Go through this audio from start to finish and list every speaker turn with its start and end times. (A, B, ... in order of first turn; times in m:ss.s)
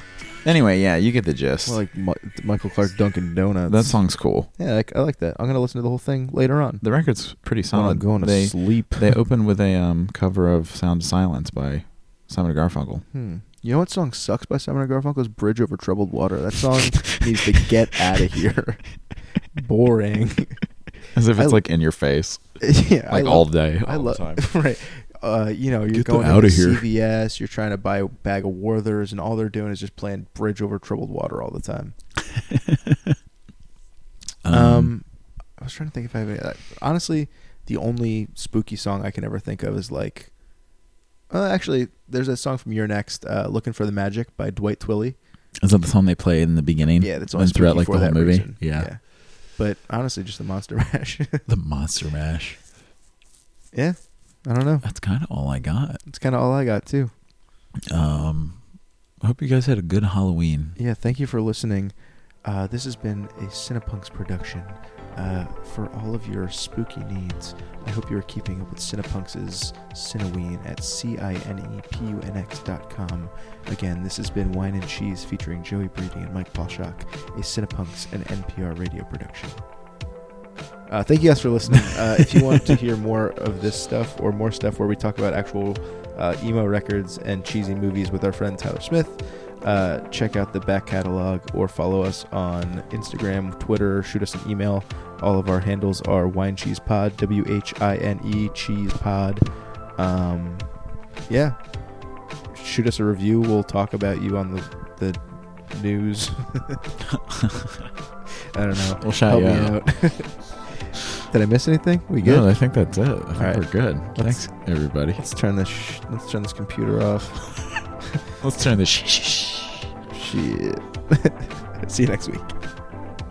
0:00.4-0:01.8 A
0:01.6-0:04.0 B
0:03.7-0:04.5 A
0:04.6-0:06.8 B
0:06.8-0:13.0 A
0:07.7-0:09.2 B
0:13.1-0:18.8 B
0:19.5-0:20.6 B
0:21.1-0:24.4 A
0:22.6-0:31.9 B
0:25.9-0:26.8 A
0:32.2-0:33.2 A
0:34.4-0:34.9 A
0:34.5-0:40.3 B
0:41.3-0:45.2 B
0:45.6-0:48.9 A
0:47.0-0:51.4 B
0:51.5-0:52.6 A
0:53.7-0:54.8 B
0:54.8-0:56.0 A
0:56.0-0:57.1 B
0:57.9-0:58.6 A
0:59.2-1:00.8 A
1:00.8-1:19.6 B
1:20.9-1:39.4 B
1:21.8-1:22.7 A
1:40.0-1:40.7 B
1:41.3-1:41.6 B
1:42.5-1:46.9 B
1:47.1-1:47.9 A
1:48.5-1:50.4 B
1:49.0-1:49.8 A
1:50.9-1:52.5 B
1:52.2-1:55.2 A
1:53.4-1:54.5 B
1:55.1-1:57.5 B
1:58.4-1:59.9 A
2:00.1-2:02.6 B